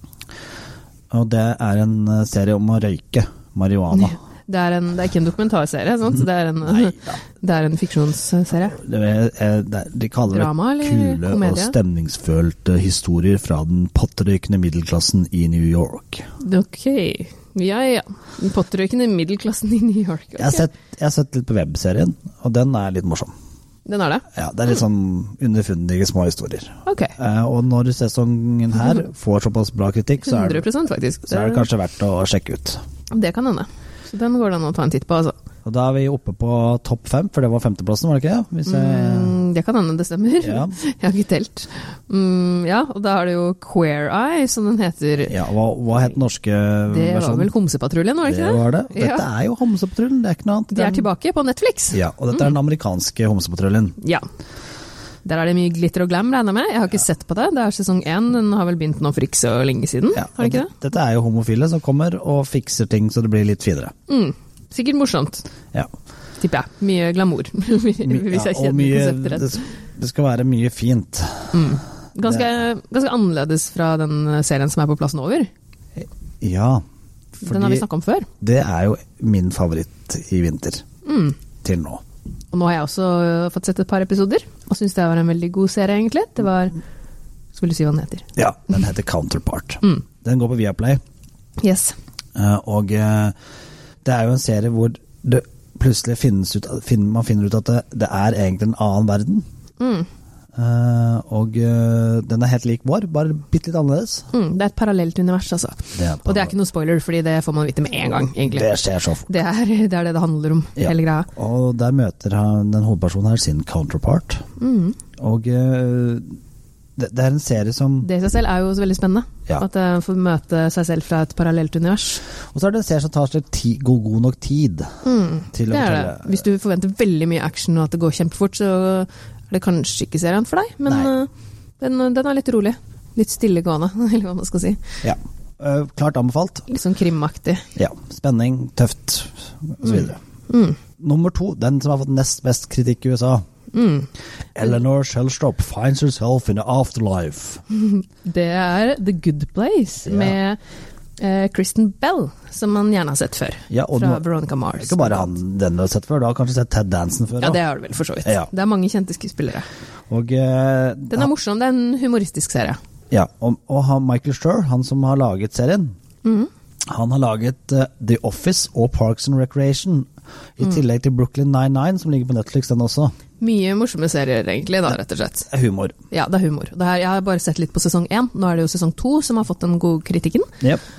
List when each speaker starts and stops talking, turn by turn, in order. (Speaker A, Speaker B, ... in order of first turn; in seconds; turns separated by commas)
Speaker A: 1.1-4.2, Speaker B: 3.9-8.8, Speaker A: 6.7-7.2, Speaker A: 8.7-16.2, Speaker B: 10.3-11.7, Speaker B: 16.4-20.6, Speaker A: 20.4-23.3, Speaker B: 23.9-24.2, Speaker A: 24.3-30.6, Speaker B: 26.9-27.1, Speaker B: 30.2-31.6, Speaker A: 31.3-32.8, Speaker B: 33.1-35.3, Speaker A: 35.6-39.4, Speaker B: 38.7-45.4, Speaker A: 40.4-40.8, Speaker A: 45.3-47.5, Speaker B: 46.9-49.2, Speaker A: 48.2-51.1, Speaker B: 50.7-52.5, Speaker A: 51.9-54.0, Speaker B: 54.0-54.2, Speaker B: 55.2-60.7, Speaker A: 60.1-63.9, Speaker B: 64.1-65.5, Speaker B: 66.4-69.6, Speaker A: 68.0-72.5, Speaker B: 71.5-75.5, Speaker A: 76.0-76.8, Speaker A: 77.4-77.8, Speaker B: 77.4-78.3, Speaker A: 78.4-80.8, Speaker B: 81.0-81.4, Speaker A: 81.6-82.0, Speaker B: 82.5-86.8, Speaker B: 87.5-88.3, Speaker A: 88.3-91.0, Speaker B: 91.6-91.9, Speaker A: 92.3-93.3, Speaker A: 94.0-99.4, Speaker B: 99.8-100.1, Speaker A: 100.5-104.3, Speaker B: 104.3-108.7, Speaker A: 106.0-106.5, Speaker A: 108.5-109.3, Speaker B: 109.3-111.3, Speaker A: 110.8-114.4, Speaker B: 114.6-115.0, Speaker A: 115.2-116.2, Speaker A: 117.0-118.1, Speaker B: 118.0-122.2, Speaker A: 122.5-124.9, Speaker B: 125.0-134.8, Speaker A: 125.5-126.4, Speaker A: 130.8-131.1, Speaker A: 135.0-136.7, Speaker B: 136.7-137.6, Speaker A: 137.8-140.2, Speaker B: 139.8-140.8, Speaker A: 141.0-143.4, Speaker B: 143.7-144.1, Speaker A: 144.5-147.6, Speaker B: 147.7-150.6, Speaker A: 150.0-150.4, Speaker B: 151.2-155.3, Speaker A: 153.7-157.6, Speaker B: 157.4-159.7, Speaker A: 158.2-158.5, Speaker A: 160.1-161.3, Speaker B: 161.1-162.8, Speaker A: 163.1-165.9, Speaker B: 166.2-166.5, Speaker A: 166.9-173.1, Speaker B: 173.4-175.5, Speaker A: 175.5-175.9, Speaker B: 176.1-180.5